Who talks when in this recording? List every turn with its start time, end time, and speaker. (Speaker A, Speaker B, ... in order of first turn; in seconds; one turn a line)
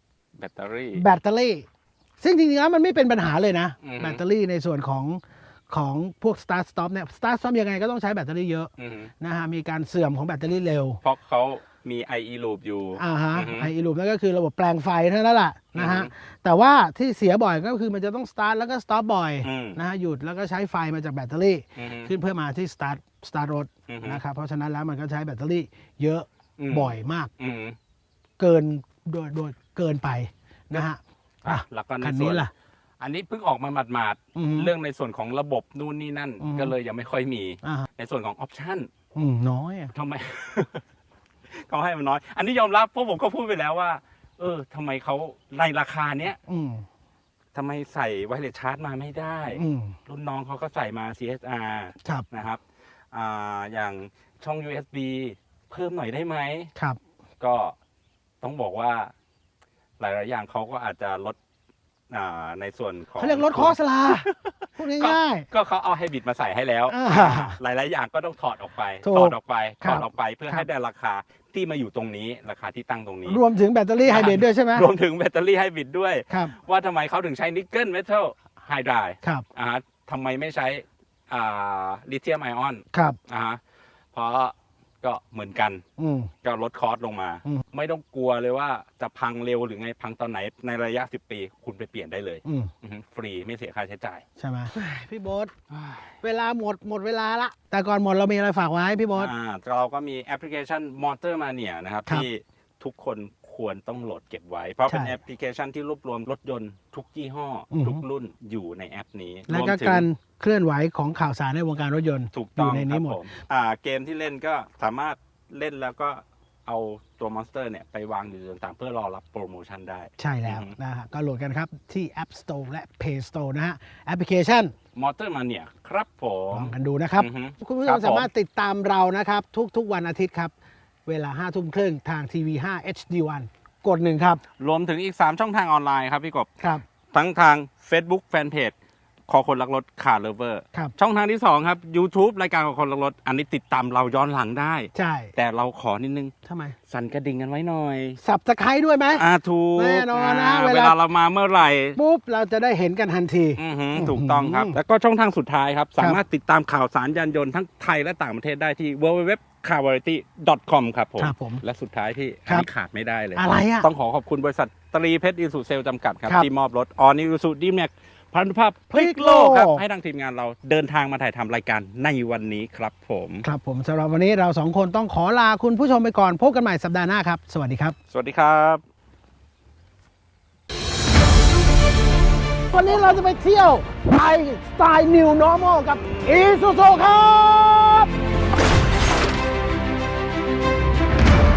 Speaker A: 0.4-1.1
Speaker B: 0.9-1.6
Speaker B: 2.2-11.0
Speaker A: 3.8-4.2
Speaker A: 8.8-9.1
Speaker A: 11.0-13.7
Speaker B: 13.0-27.3
Speaker A: 15.7-16.1
Speaker A: 19.4-19.8
Speaker A: 21.8-22.1
Speaker A: 23.9-24.2
Speaker A: 26.6-27.8
Speaker B: 28.4-32.5
Speaker A: 31.4-32.5
Speaker A: 33.0-38.9
Speaker B: 34.3-34.7
Speaker B: 36.4-36.7
Speaker B: 37.6-37.9
Speaker B: 39.1-39.9
Speaker A: 39.9-40.8
Speaker A: 41.5-46.4
Speaker B: 46.5-46.9
Speaker A: 47.5-52.6
Speaker B: 49.5-50.0
Speaker A: 53.1-56.7
Speaker A: 57.4-57.7
Speaker A: 58.4-59.1
Speaker A: 60.0-61.4
Speaker A: 62.1-73.4
Speaker B: 63.2-65.5
Speaker B: 66.9-67.6
Speaker B: 69.0-70.7
Speaker B: 73.2-74.9
Speaker A: 74.0-83.6
Speaker B: 76.3-76.5
Speaker B: 82.9-83.2
Speaker A: 84.1-85.8
Speaker B: 86.0-86.3
Speaker A: 86.4-94.2
Speaker B: 92.4-92.7
Speaker B: 94.4-95.5
Speaker A: 95.7-96.2
Speaker B: 96.2-99.3
Speaker A: 99.2-110.0
Speaker B: 104.9-105.2
Speaker B: 107.7-108.0
Speaker B: 109.5-113.2
Speaker A: 112.3-120.7
Speaker B: 120.2-124.7
Speaker A: 124.9-128.3
Speaker B: 126.5-130.5
Speaker B: 131.1-134.4
Speaker A: 134.6-136.5
Speaker A: 137.1-138.7
Speaker A: 139.3-146.3
Speaker B: 144.9-145.3
Speaker B: 146.4-146.8
Speaker A: 146.9-148.2
Speaker B: 148.2-149.2
Speaker A: 149.2-152.0
Speaker B: 149.8-151.0
Speaker B: 151.9-154.8
Speaker A: 153.6-173.5
Speaker B: 161.2-161.6
Speaker B: 163.3-163.9
Speaker B: 168.9-169.8
Speaker B: 173.4-177.9
Speaker A: 178.1-178.8
Speaker B: 182.7-188.1